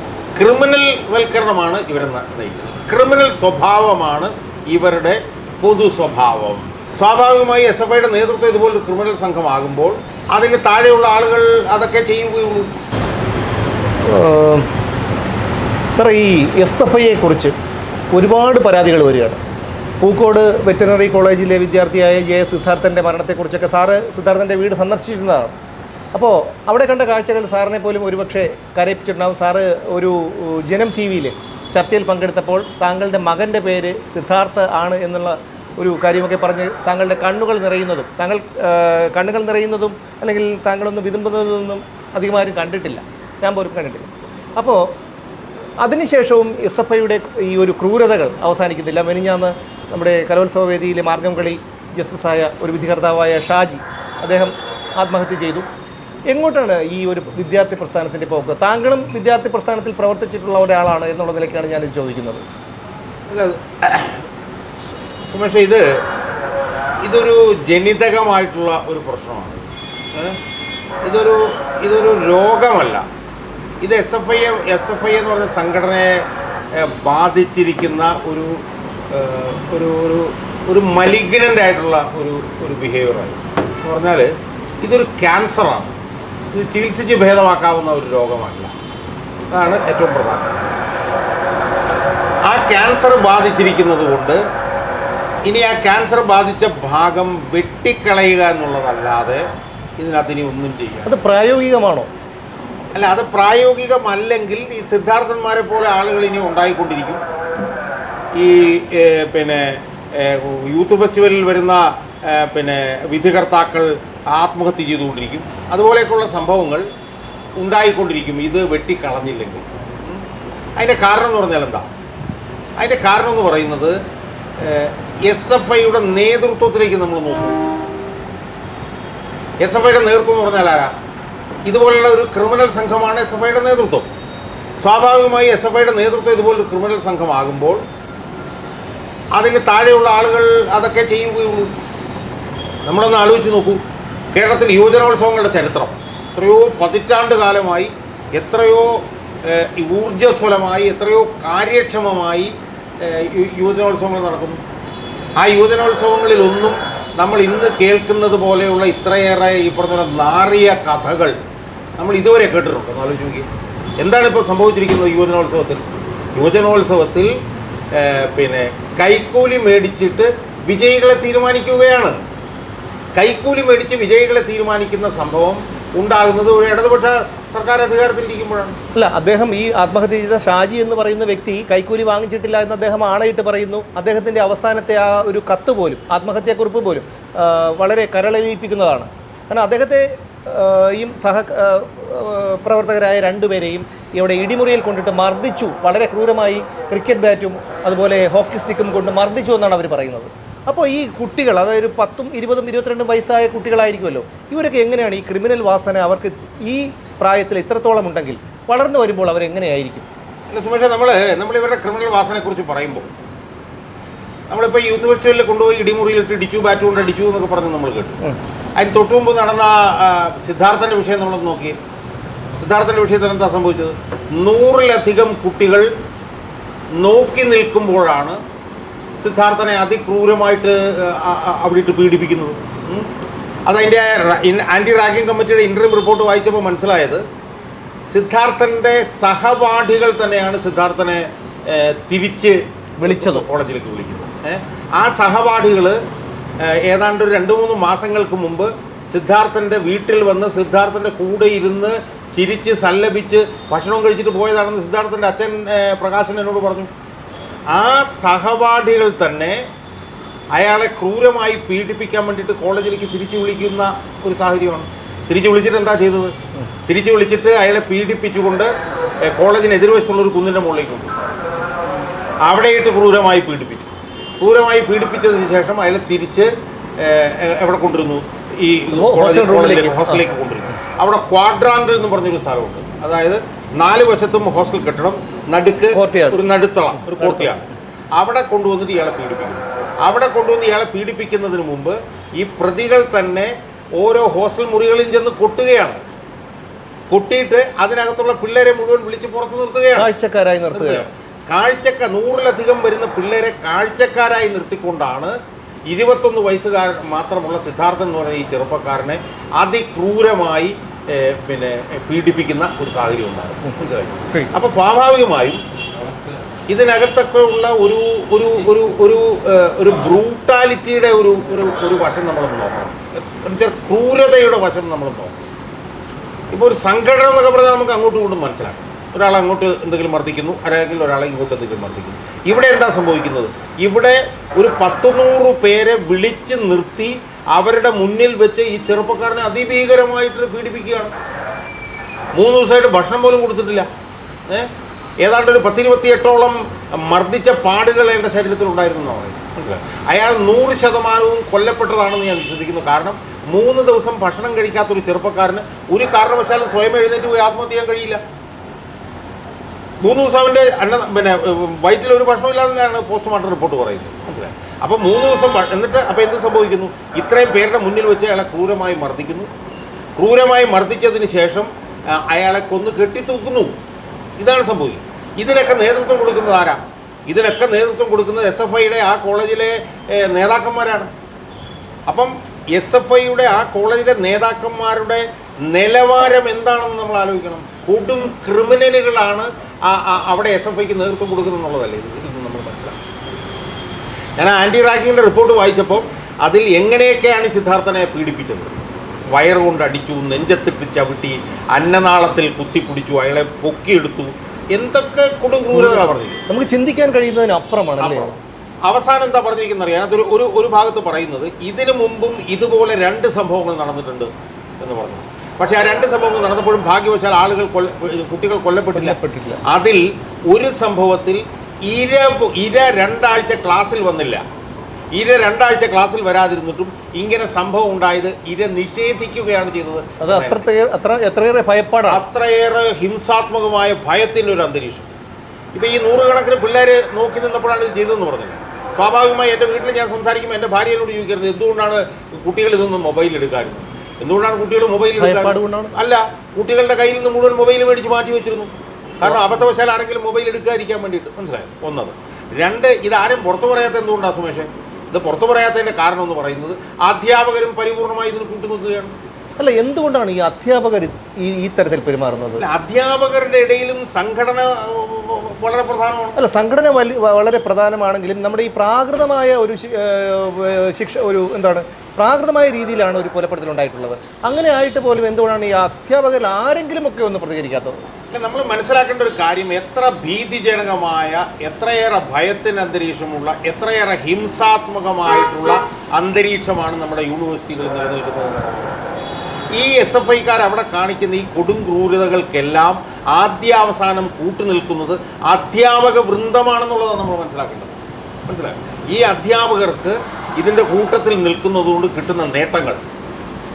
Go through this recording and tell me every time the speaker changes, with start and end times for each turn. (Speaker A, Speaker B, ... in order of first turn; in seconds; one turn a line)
Speaker A: 0.3-12.7
Speaker B: 14.1-14.7
Speaker B: 15.9-17.5
Speaker B: 18.1-19.4
Speaker B: 20.0-25.5
Speaker B: 26.1-44.9
Speaker B: 45.8-55.6
Speaker B: 56.3-62.4
Speaker A: 63.3-64.2
Speaker A: 65.3-66.0
Speaker A: 67.0-70.4
Speaker A: 71.0-73.0
Speaker A: 73.8-84.3
Speaker A: 84.8-86.0
Speaker A: 86.5-88.7
Speaker A: 89.5-90.5
Speaker A: 92.5-94.4
Speaker A: 95.5-99.4
Speaker A: 100.0-101.2
Speaker B: 101.0-102.1
Speaker A: 102.9-107.2
Speaker A: 108.3-116.8
Speaker A: 117.6-120.2
Speaker A: 120.8-121.9
Speaker A: 122.8-124.0
Speaker A: 124.6-127.6
Speaker A: 129.6-130.9
Speaker A: 131.7-134.1
Speaker A: 134.8-137.8
Speaker A: 139.3-141.7
Speaker A: 142.8-143.8
Speaker A: 144.3-154.6
Speaker A: 155.4-161.4
Speaker A: 162.0-163.5
Speaker A: 164.0-167.3
Speaker A: 167.9-172.2
Speaker A: 173.1-178.8
Speaker B: 178.9-210.1
Speaker A: 210.5-213.1
Speaker A: 214.5-218.2
Speaker A: 218.8-221.8
Speaker A: 222.6-225.9
Speaker A: 227.0-228.4
Speaker A: 229.2-233.1
Speaker A: 233.7-237.2
Speaker A: 238.1-246.0
Speaker B: 243.0-243.5
Speaker A: 246.6-256.9
Speaker A: 257.7-259.6
Speaker A: 260.5-266.3
Speaker A: 266.9-268.7
Speaker A: 269.2-271.2
Speaker A: 272.4-296.0
Speaker B: 278.9-280.2
Speaker B: 285.9-286.4
Speaker B: 287.1-287.6
Speaker A: 297.1-300.1
Speaker B: 299.9-301.0
Speaker A: 300.7-305.4
Speaker A: 305.9-315.6
Speaker A: 316.7-325.4
Speaker A: 326.5-341.1
Speaker A: 342.3-343.9
Speaker A: 345.2-358.2
Speaker A: 360.0-369.5
Speaker A: 370.2-373.8
Speaker A: 374.4-381.1
Speaker A: 382.1-393.0
Speaker A: 394.4-398.7
Speaker A: 399.3-406.4
Speaker B: 405.7-408.4
Speaker A: 408.0-424.4
Speaker B: 418.9-419.6
Speaker A: 425.1-430.6
Speaker B: 430.2-432.2
Speaker A: 432.1-435.1
Speaker A: 435.7-459.1
Speaker B: 445.2-445.9
Speaker B: 449.2-449.6
Speaker B: 459.6-462.6
Speaker A: 462.6-466.4
Speaker B: 466.4-478.0
Speaker A: 478.3-489.0
Speaker A: 489.7-497.9
Speaker A: 498.5-503.0